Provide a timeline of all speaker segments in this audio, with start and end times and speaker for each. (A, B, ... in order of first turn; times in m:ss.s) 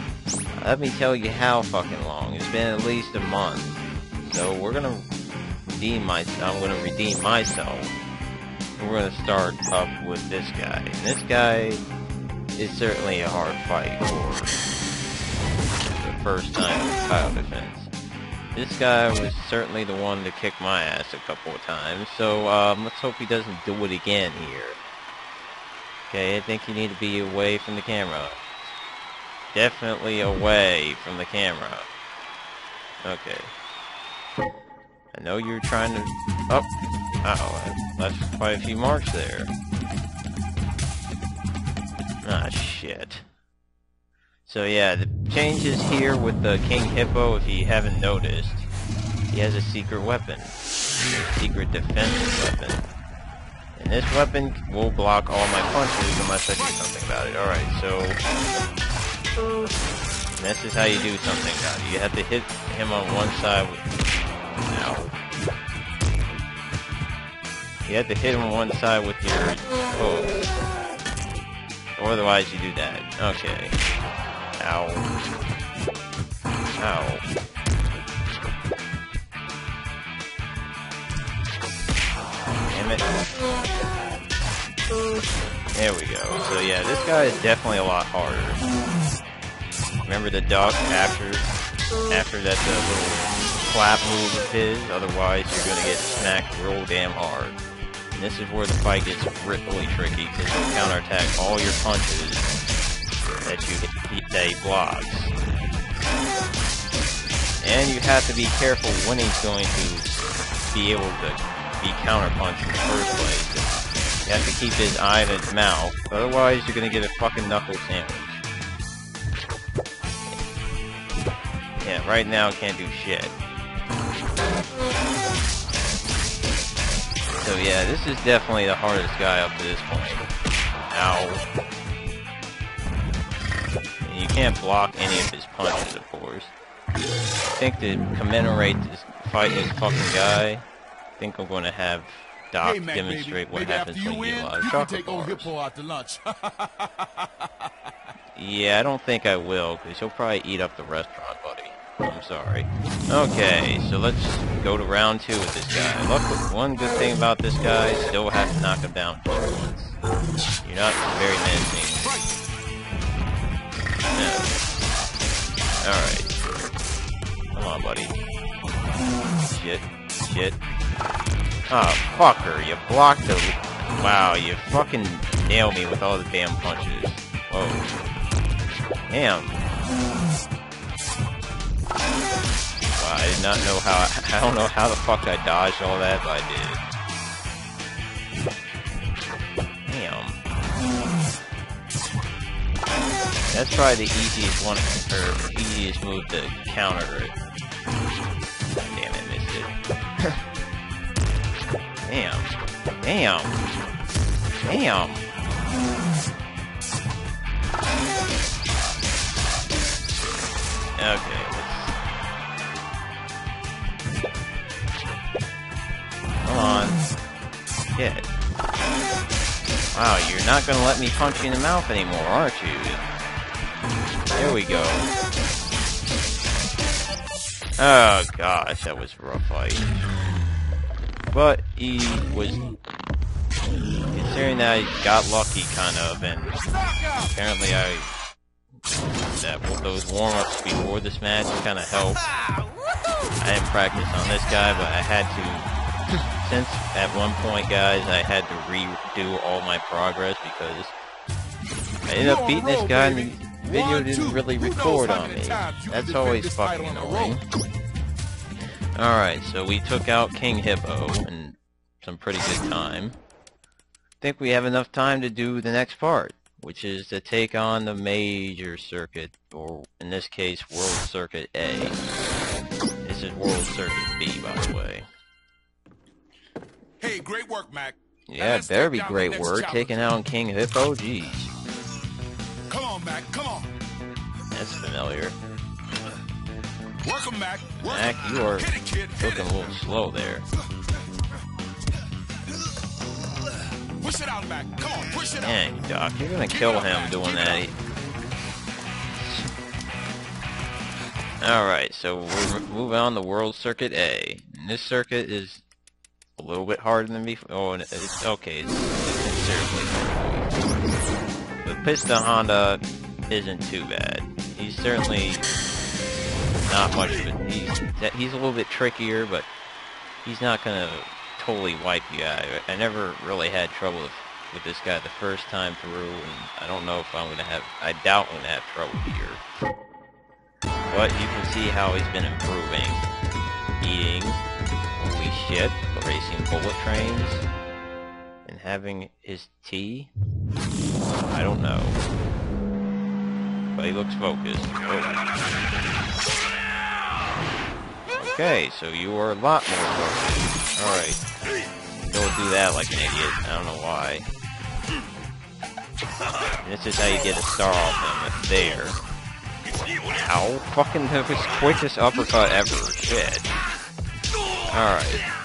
0:00.6-0:05.1 A
0:05.8-0:07.9 A
0:08.8-0:11.8 A
0:12.6-0:14.6 A
0:15.8-0:17.9 A
0:18.5-0:24.8 A
0:26.1-0:28.4 A
0:29.5-0:31.9 A
0:33.0-0:33.5 A
0:35.1-0:36.7 A
0:37.2-0:39.5 A
0:42.2-0:43.2 A
0:44.4-0:48.7 A
0:49.3-0:50.6 A
0:51.3-0:52.8 A
0:53.8-0:58.2 A
1:00.3-1:03.8 A
1:04.6-1:05.1 A
1:07.8-1:10.6 A
1:12.0-1:13.8 A
1:14.6-1:15.1 A
1:16.8-1:17.2 A
1:22.7-1:23.1 A
1:25.7-1:28.6 A
1:30.0-1:31.5 A
1:32.1-1:37.6 A
1:38.1-1:42.5 A
1:43.4-1:45.3 A
1:47.6-1:50.1 A
1:50.7-1:53.7 A
1:54.2-1:58.4 A
2:01.8-2:03.3 A
2:07.4-2:10.3 A
2:10.9-2:11.4 A
2:14.0-2:16.5 A
2:17.5-2:20.6 A
2:21.2-2:25.5 A
2:22.6-2:27.3 B
2:28.3-2:40.0 A
2:40.6-2:42.1 A
2:44.1-2:44.6 A
2:45.8-2:46.3 A
2:47.5-2:48.1 A
2:49.4-2:50.6 A
2:51.7-2:57.9 A
2:59.1-2:59.6 A
3:02.9-3:06.8 A
3:09.9-3:10.4 A
3:13.5-3:17.3 A
3:18.8-3:19.7 A
3:22.1-3:23.6 A
3:24.6-3:25.2 A
3:31.0-3:32.0 A
3:36.4-3:37.0 A
3:37.9-3:38.3 A
3:39.9-3:43.0 A
3:44.3-3:45.1 A
3:47.8-3:50.0 A
3:51.3-3:52.6 A
3:54.1-3:56.6 A
3:57.1-3:58.1 A
3:59.3-4:02.2 A
4:03.4-4:05.7 A
4:06.4-4:10.9 A
4:12.1-4:17.4 A
4:12.2-4:17.4 B
4:19.0-4:23.2 A
4:24.2-4:32.0 A
4:33.0-4:35.0 A
4:37.0-4:40.1 B
4:38.3-4:41.5 A
4:42.7-4:43.7 B
4:44.5-4:45.3 A
4:47.0-4:49.3 B
4:47.8-4:50.4 A
4:54.0-4:55.6 B
4:55.4-4:57.7 A
4:56.7-4:57.6 B
4:59.1-4:59.5 A
5:01.4-5:05.6 A
5:06.4-5:10.9 A
5:11.6-5:15.5 A
5:16.7-5:19.5 A
5:20.2-5:29.4 A
5:30.9-5:33.0 A
5:33.8-5:34.4 A
5:35.0-5:37.5 A
5:38.4-5:40.1 A
5:41.2-5:42.0 A
5:43.8-5:45.2 A
5:48.1-5:51.2 A
5:52.1-5:54.3 A
5:56.6-5:59.0 A
6:00.1-6:03.5 A
6:04.7-6:05.3 A